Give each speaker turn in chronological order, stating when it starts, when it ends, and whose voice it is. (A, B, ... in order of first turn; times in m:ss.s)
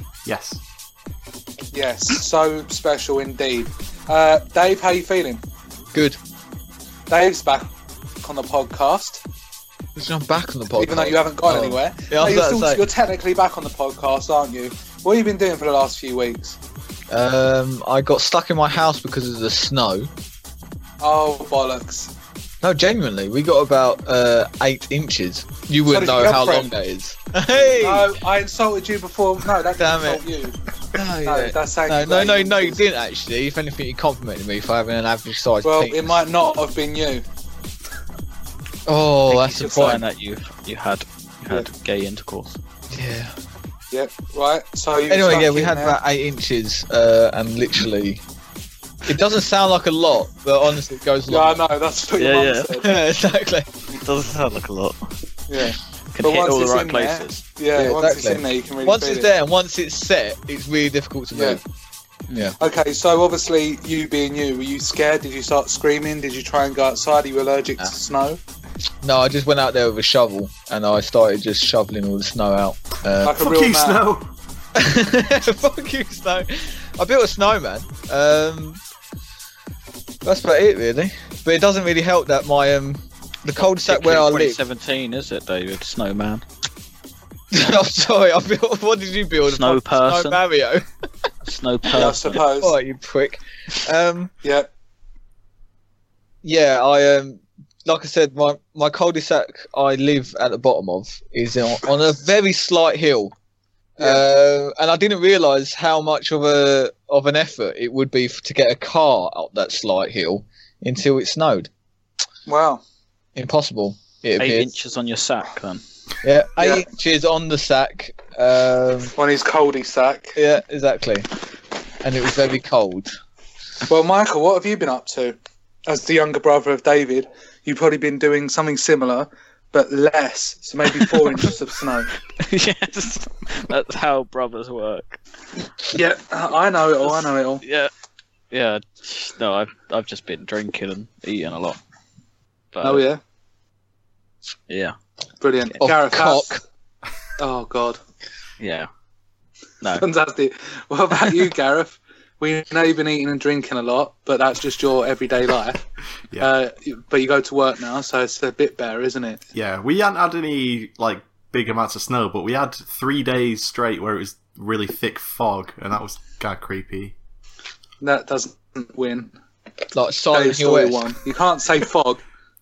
0:00.2-0:00.6 A
0:01.7-0:05.4 B
0:05.9-0:06.2 C
0:07.1-0:07.7 B
0:08.2-0:09.2 B
0:10.0-0:12.8 C
0:10.8-0:16.6 B
0:17.1-0:20.1 C
0:21.0-0:22.1 B
0:22.6-0:28.1 C
0:25.9-0:26.7 B
0:27.7-0:30.6 B
0:29.8-0:30.2 C
0:30.9-0:36.3 C
0:31.2-0:32.8 B
0:35.6-0:37.2 B
0:38.9-0:40.0 C
0:39.3-0:42.6 D
0:39.6-0:40.0 B
0:42.9-0:43.3 C
0:43.9-0:46.0 B
0:45.1-0:48.2 C
0:49.1-0:51.6 C
0:51.3-0:52.9 B
0:52.2-0:52.7 D
0:52.8-0:53.7 C
0:54.0-0:55.0 D
0:55.5-0:59.3 B
0:56.1-0:57.4 D
0:57.8-1:01.6 C
1:01.3-1:01.6 B
1:02.3-1:02.6 C
1:02.6-1:08.4 B
1:09.0-1:13.4 C
1:13.2-1:14.0 B
1:13.4-1:14.3 A
1:14.8-1:18.8 C
1:20.2-1:24.6 C
1:23.6-1:26.4 D
1:27.5-1:30.9 C
1:29.5-1:30.4 D
1:31.4-1:32.4 D
1:31.9-1:32.8 B
1:31.9-1:34.3 C
1:34.4-1:34.7 B
1:36.4-1:43.3 C
1:44.0-1:44.3 B
1:44.0-1:51.7 C
1:52.5-1:52.8 B
1:53.4-1:54.7 C
1:54.4-1:55.8 D
1:56.2-1:59.2 C
1:56.6-1:56.9 B
1:59.2-2:00.4 B
2:00.4-2:01.3 C
2:02.0-2:03.1 C
2:03.9-2:12.1 B
2:12.4-2:15.2 D
2:15.9-2:17.6 B
2:17.1-2:17.9 D
2:18.5-2:21.8 D
2:22.7-2:23.0 D
2:22.8-2:23.2 B
2:24.7-2:25.0 D
2:25.4-2:26.5 B
2:25.8-2:26.6 C
2:27.4-2:28.0 B
2:28.6-2:28.9 D
2:30.0-2:35.8 B
2:36.4-2:39.4 B
2:39.5-2:47.2 A
2:48.0-2:49.4 B
2:49.9-2:51.0 C
2:50.3-2:52.2 B